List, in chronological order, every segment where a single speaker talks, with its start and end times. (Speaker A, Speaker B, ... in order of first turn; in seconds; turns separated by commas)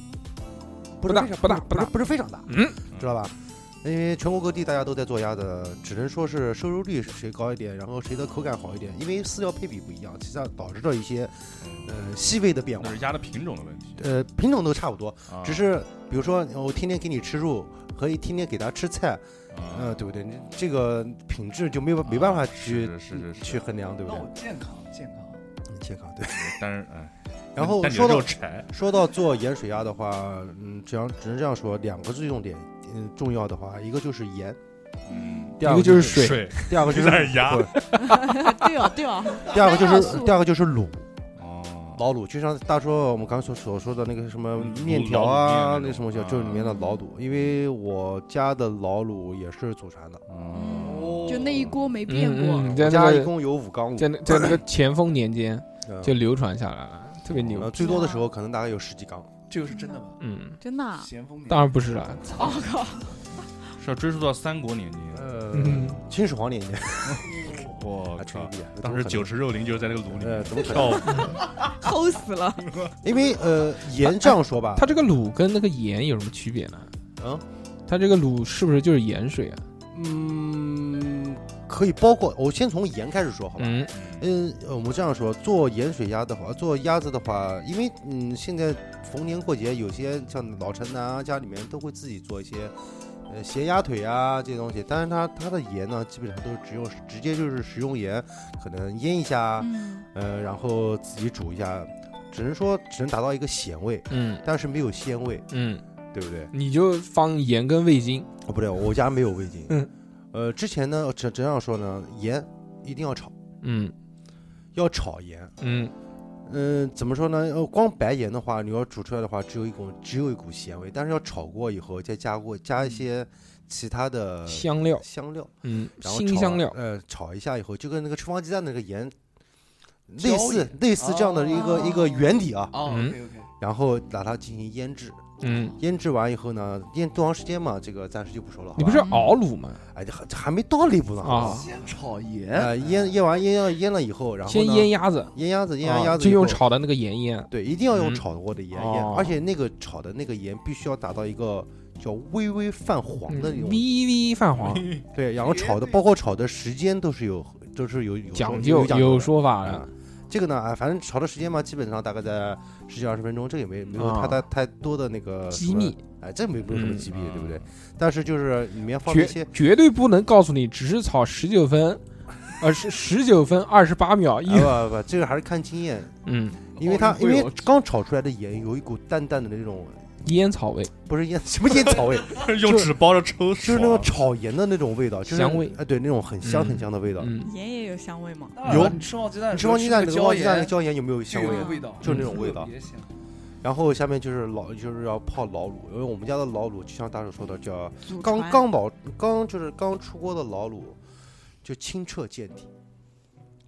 Speaker A: 1.0-13.1, Speaker B: 1.1-1.9, Speaker B: 2.5-2.8, Speaker C: 11.6-11.9, Speaker C: 12.8-14.1, Speaker A: 14.0-24.3, Speaker C: 15.3-15.7, Speaker C: 19.5-20.0, Speaker C: 22.1-23.6, Speaker D: 24.0-25.5, Speaker A: 25.7-26.6, Speaker C: 26.3-28.7, Speaker A: 27.6-34.6, Speaker C: 35.1-37.8, Speaker E: 35.1-35.5, Speaker A: 35.6-37.8, Speaker B: 35.6-36.8, Speaker E: 38.0-40.4, Speaker A: 39.3-41.1, Speaker C: 41.4-42.0, Speaker A: 42.0-50.2, Speaker C: 44.6-46.8, Speaker E: 46.6-47.0, Speaker C: 50.3-51.8, Speaker E: 50.5-52.8, Speaker D: 50.8-51.6, Speaker B: 52.1-53.4, Speaker A: 52.7-54.6, Speaker B: 54.0-57.7, Speaker A: 55.9-56.2, Speaker C: 57.3-57.6, Speaker A: 57.5-59.3, Speaker E: 57.7-58.3, Speaker D: 59.5-60.2, Speaker E: 59.7-60.0, Speaker B: 60.2-60.6, Speaker E: 60.6-61.1, Speaker D: 61.0-62.5, Speaker B: 61.5-62.5, Speaker E: 62.3-63.1, Speaker C: 63.8-65.3, Speaker A: 65.1-69.5, Speaker B: 65.5-66.0, Speaker C: 67.1-71.4, Speaker A: 70.1-71.3, Speaker B: 71.1-71.3, Speaker E: 71.5-72.7, Speaker A: 73.0-75.0, Speaker B: 74.8-76.9, Speaker A: 77.2-77.5, Speaker B: 77.9-79.6, Speaker A: 79.9-92.8, Speaker B: 83.6-83.9, Speaker C: 83.9-84.3, Speaker A: 93.3-105.5, Speaker E: 99.6-100.1, Speaker B: 104.1-104.4, Speaker B: 105.5-105.8, Speaker A: 106.1-106.5, Speaker B: 106.5-108.3, Speaker A: 108.5-109.8, Speaker A: 110.3-113.3, Speaker B: 113.6-113.9, Speaker A: 114.8-115.5, Speaker B: 115.6-115.9, Speaker A: 116.5-129.2, Speaker B: 124.5-125.0, Speaker B: 125.6-126.8, Speaker A: 130.1-132.8, Speaker D: 130.2-133.5, Speaker E: 131.5-132.3, Speaker B: 132.8-133.2, Speaker A: 133.6-139.1, Speaker B: 135.4-135.8, Speaker B: 138.8-139.8, Speaker E: 138.9-139.4, Speaker A: 139.9-141.7, Speaker B: 141.2-141.7, Speaker D: 141.4-143.0, Speaker A: 142.5-146.7, Speaker B: 144.5-148.2, Speaker A: 147.5-153.9, Speaker B: 148.7-149.4, Speaker B: 153.3-155.0, Speaker C: 154.6-155.1, Speaker A: 155.1-169.6, Speaker D: 155.4-156.0, Speaker B: 158.3-159.9, Speaker B: 164.0-164.4, Speaker B: 165.5-166.0, Speaker B: 166.7-167.1, Speaker C: 167.1-167.7, Speaker B: 169.1-172.0, Speaker B: 172.6-174.8, Speaker A: 174.4-176.2, Speaker B: 176.2-176.7, Speaker A: 176.7-180.1, Speaker D: 176.8-177.3, Speaker B: 180.2-180.9, Speaker A: 181.1-182.5, Speaker C: 182.2-184.1, Speaker A: 183.6-187.3, Speaker B: 185.3-185.8, Speaker B: 186.4-187.5, Speaker E: 187.4-188.7, Speaker D: 188.5-190.8, Speaker A: 188.6-192.7, Speaker D: 191.3-193.2, Speaker E: 191.4-192.0, Speaker A: 193.6-201.0, Speaker E: 198.0-198.7, Speaker A: 201.6-202.7